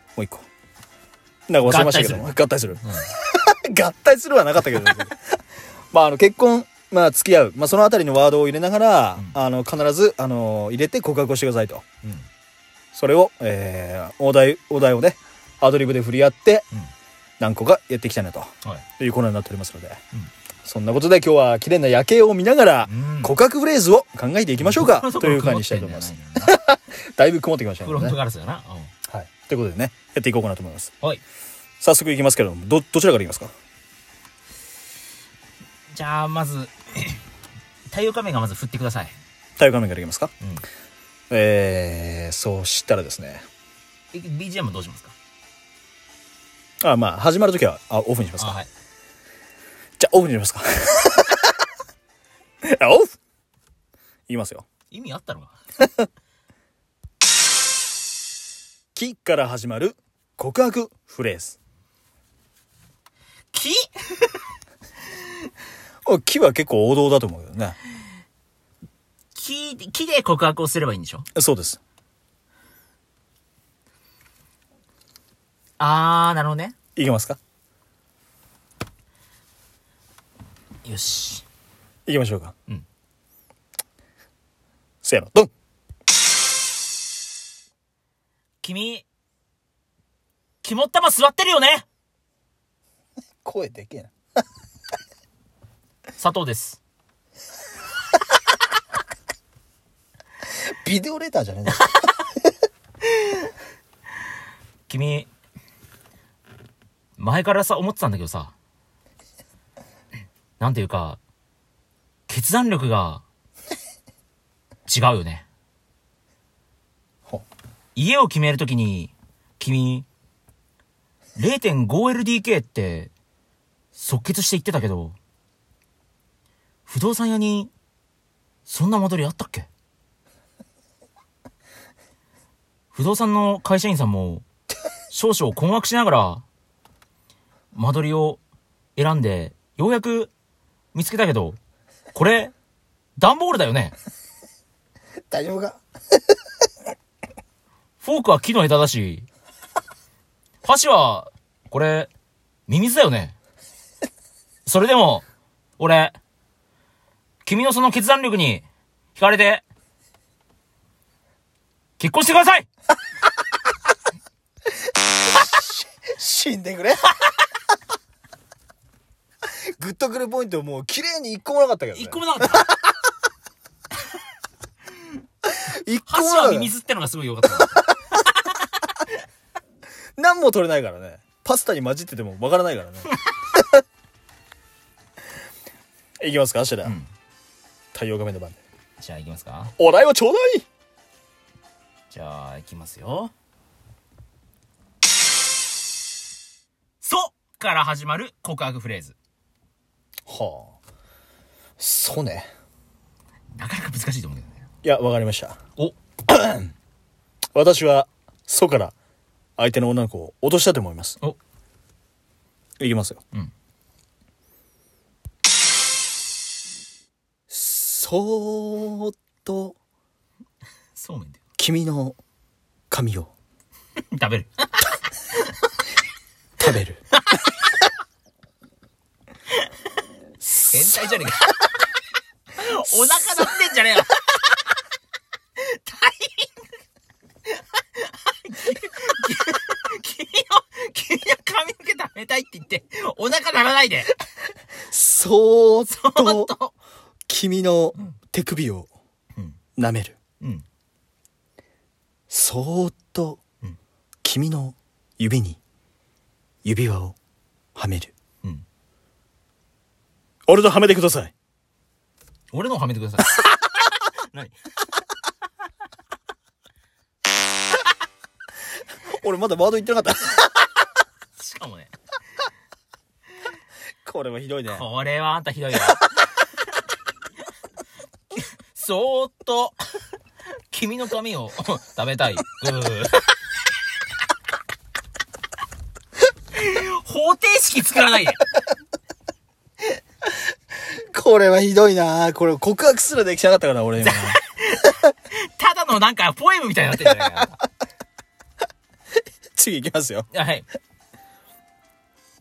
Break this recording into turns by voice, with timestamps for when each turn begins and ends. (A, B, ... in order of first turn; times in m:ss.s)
0:00.2-0:00.4 A
0:01.5-0:05.2 A
0:01.6-0:02.3 B
0:02.8-0:03.1 B
0:05.9-0:11.8 A
0:12.9-0:16.6 A
0:17.4-0:20.0 A
0:20.6-0:28.2 A
0:22.8-0:23.4 B
0:24.6-0:26.6 B
0:27.8-0:28.9 B
0:29.1-0:30.9 A
0:31.8-0:33.5 A
0:35.9-0:37.2 B
0:37.9-0:39.1 B
0:39.6-0:40.3 A
0:41.3-0:43.4 A
0:44.1-0:45.1 B
0:46.8-0:48.6 A
0:48.4-0:48.7 B
0:50.0-0:51.5 A
0:52.6-0:53.1 A
0:54.3-0:54.6 A
0:54.9-0:55.6 B
0:58.9-1:01.6 A
1:03.5-1:04.3 B
1:06.0-1:07.8 A
1:09.3-1:11.2 B
1:11.3-1:11.8 A
1:15.8-1:16.7 B
1:17.0-1:17.4 A
1:20.8-1:21.4 B
1:22.0-1:22.5 A
1:25.0-1:25.5 A
1:28.6-1:29.0 B
1:30.6-1:31.8 B
1:33.4-1:34.1 A
1:36.2-1:36.8 B
1:40.7-1:42.0 A
1:44.9-1:45.3 B
1:47.2-1:48.5 B
1:50.6-1:51.2 B
1:52.3-1:53.2 B
1:54.9-1:55.4 B
1:58.0-2:00.1 B
2:01.4-2:03.1 B
2:03.9-2:05.2 B
2:06.9-2:07.7 B
2:08.6-2:09.7 B
2:12.9-2:14.4 B
2:15.1-2:16.4 B
2:17.7-2:18.4 B
2:19.0-2:20.3 B
2:20.9-2:21.6 B
2:22.1-2:22.5 B
2:23.2-2:23.9 B
2:25.3-2:25.8 A
2:28.0-2:29.3 B
2:30.6-2:32.1 B
2:32.7-2:33.4 B
2:34.6-2:35.2 B
2:35.8-2:36.1 B
2:37.4-2:38.6 B
2:39.1-2:39.6 B
2:42.0-2:42.7 B
2:45.3-2:47.0 A
2:49.8-2:52.7 A
2:51.9-2:52.7 B
2:55.5-2:56.7 A
2:56.1-2:58.6 B
3:00.2-3:03.8 A
3:06.2-3:06.9 A
3:07.9-3:08.6 A
3:09.0-3:09.7 B
3:09.8-3:10.6 A
3:12.1-3:13.3 B
3:17.0-3:19.1 B
3:20.3-3:20.8 A
3:21.8-3:22.5 A
3:23.5-3:24.6 B
3:24.8-3:25.6 A
3:26.3-3:26.7 A
3:27.5-3:28.9 A
3:29.6-3:31.2 A
3:32.8-3:33.2 A
3:37.5-3:39.8 A
3:41.0-3:41.4 B
3:41.6-3:42.2 A
3:42.9-3:43.3 A
3:44.1-3:45.0 B
3:46.6-3:47.0 A
3:47.2-3:47.5 B
3:50.4-3:51.1 A
3:50.5-3:51.6 B
3:52.6-3:54.6 B
3:55.6-3:56.6 B
3:58.0-4:04.1 B
4:04.9-4:06.5 A
4:05.9-4:06.7 B
4:07.3-4:08.9 A
4:09.8-4:10.2 A
4:10.4-4:10.6 B
4:12.3-4:13.4 A
4:14.2-4:15.6 A
4:16.6-4:17.2 A
4:17.8-4:18.1 A
4:20.5-4:21.3 A
4:22.5-4:24.5 B
4:29.1-4:30.5 A
4:31.4-4:31.9 B
4:34.0-4:34.8 A
4:34.7-4:36.2 B
4:38.3-4:39.8 B
4:40.7-4:43.3 B
4:46.5-4:48.4 B
4:51.1-4:54.4 A
4:54.0-4:57.6 B
4:59.6-5:00.3 A
5:00.3-5:00.6 B